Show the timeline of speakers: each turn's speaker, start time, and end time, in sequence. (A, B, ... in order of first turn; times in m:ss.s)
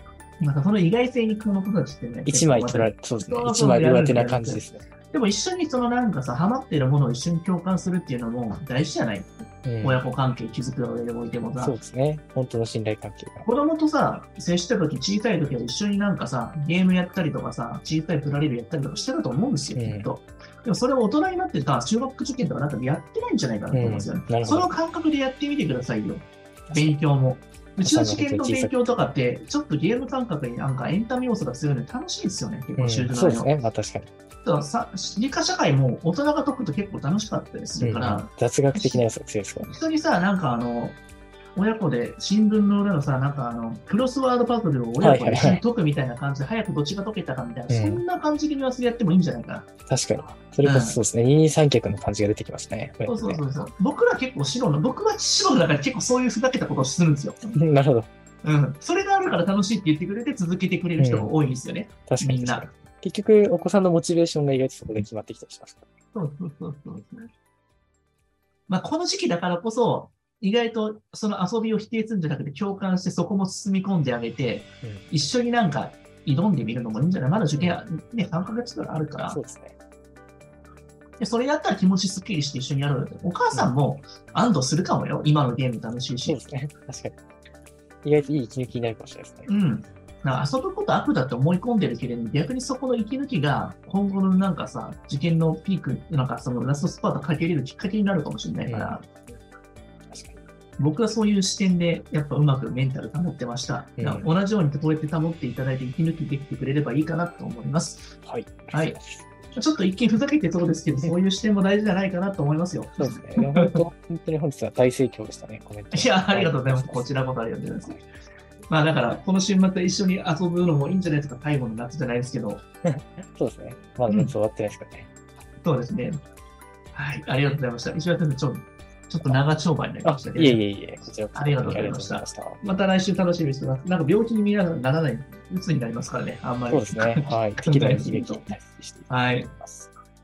0:00.4-0:11.8 A
0:02.3-0:04.8 B
0:09.6-0:10.0 B
0:11.6-0:13.5 B
0:13.4-0:33.5 A
0:19.8-0:20.1 B
0:23.7-0:24.7 B
0:26.7-0:27.0 B
0:27.8-0:28.8 B
0:32.8-0:34.1 B
0:34.4-0:39.0 A
0:37.8-0:39.7 B
0:39.7-0:41.0 A
0:41.6-0:49.7 A
0:45.0-0:45.6 B
0:47.7-0:48.0 B
0:49.9-0:53.4 B
0:50.6-0:51.0 A
0:53.1-0:57.6 A
0:57.6-0:58.1 B
0:58.4-1:02.7 A
1:01.0-1:01.3 B
1:02.1-1:05.9 B
1:06.1-1:07.3 A
1:08.7-1:19.4 A
1:19.3-1:19.8 B
1:21.2-1:26.4 A
1:26.3-1:27.2 B
1:28.0-1:29.5 B
1:29.5-1:39.0 A
1:38.7-1:39.0 B
1:40.1-1:40.4 B
1:40.8-1:48.2 A
1:44.0-1:44.3 B
1:48.2-1:49.2 B
1:48.7-1:49.0 A
1:49.5-1:53.8 A
1:53.0-1:57.1 B
1:55.9-1:58.0 A
1:58.7-2:02.6 A
2:02.8-2:05.1 B
2:05.6-2:06.2 A
2:06.9-2:10.6 A
2:10.0-2:12.6 B
2:11.3-2:18.5 A
2:16.7-2:19.9 B
2:19.1-2:19.5 A